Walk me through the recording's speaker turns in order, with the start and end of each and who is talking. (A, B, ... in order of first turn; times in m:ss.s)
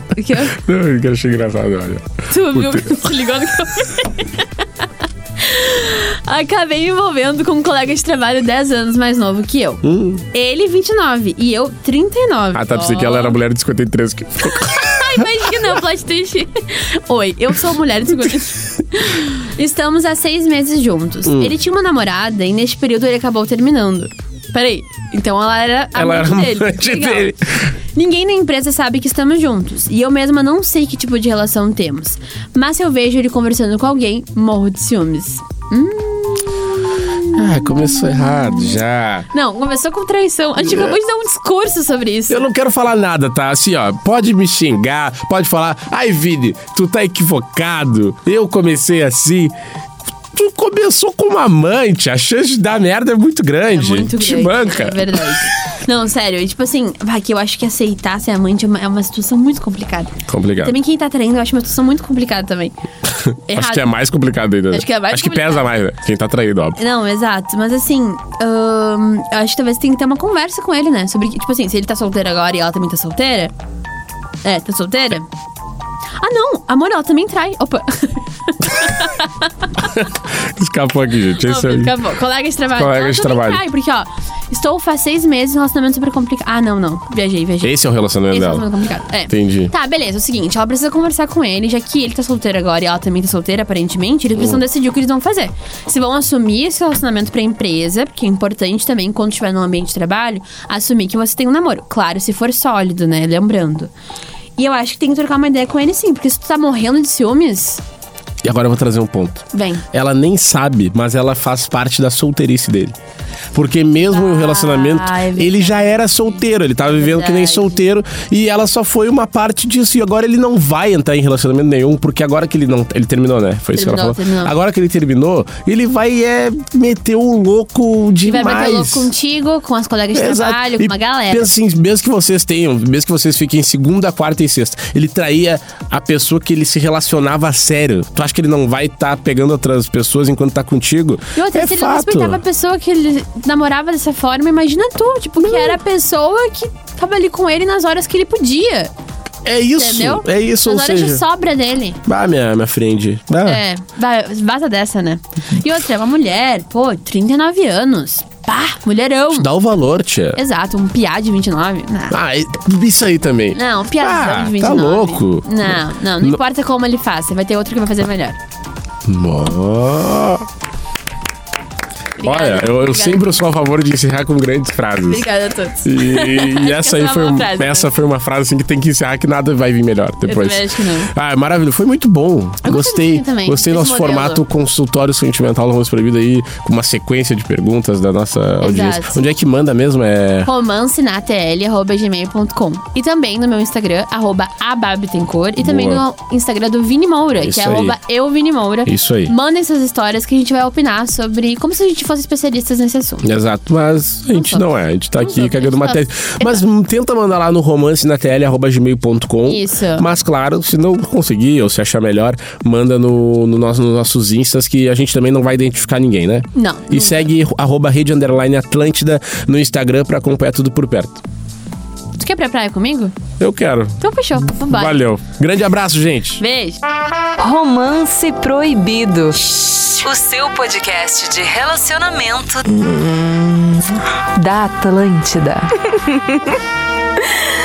0:00.1-0:00.6 A
0:00.5-0:03.0 B
0:02.3-0:04.6 A
0:05.4-0:13.4 A
0:09.8-0:10.2 B
0:12.5-0:15.6 B
0:14.6-0:27.4 A
0:21.3-0:21.5 B
0:25.9-0:27.7 B
0:27.9-0:38.8 A
0:37.3-0:39.3 B
0:39.3-0:42.4 A
0:40.6-0:41.0 B
0:42.3-0:49.5 B
0:50.3-0:55.5 B
0:53.7-1:02.7 A
1:00.3-1:00.8 B
1:03.2-1:06.8 B
1:03.5-1:03.9 A
1:04.7-1:05.7 A
1:06.8-1:13.5 A
1:14.4-1:15.3 A
1:16.2-1:19.7 A
1:19.8-1:22.0 B
1:21.4-1:27.8 A
1:22.8-1:23.6 B
1:27.6-1:28.7 B
1:28.3-1:43.9 A
1:29.3-1:29.7 B
1:34.4-1:34.6 B
1:44.6-1:47.8 A
1:48.4-1:53.0 B
1:49.5-1:49.8 A
1:53.5-2:09.1 B
1:54.1-1:57.8 A
2:03.8-2:04.5 A
2:08.2-2:11.5 A
2:10.1-2:22.4 B
2:21.4-2:28.9 A
2:25.4-2:25.8 B
2:29.4-2:31.2 B
2:29.8-2:32.0 A
2:32.0-2:33.6 B
2:33.4-2:39.5 A
2:39.3-2:40.4 B
2:40.4-2:42.2 A
2:42.1-2:46.4 B
2:43.5-2:48.4 A
2:49.0-2:50.5 B
2:52.2-2:53.4 A
2:52.2-2:55.3 B
2:55.1-2:57.9 A
2:55.8-3:10.5 B
3:00.2-3:01.1 A
3:02.6-3:04.4 A
3:08.6-3:09.2 A
3:10.4-3:23.3 A
3:15.6-3:16.0 B
3:17.4-3:18.0 B
3:18.8-3:19.3 B
3:23.2-3:41.2 B
3:24.3-3:26.6 A
3:29.4-3:30.1 A
3:36.5-3:37.3 A
3:42.2-3:43.1 A
3:43.4-3:44.0 B
3:44.0-3:45.0 A
3:44.5-3:46.4 B
3:46.4-3:46.8 A
3:47.4-3:56.4 C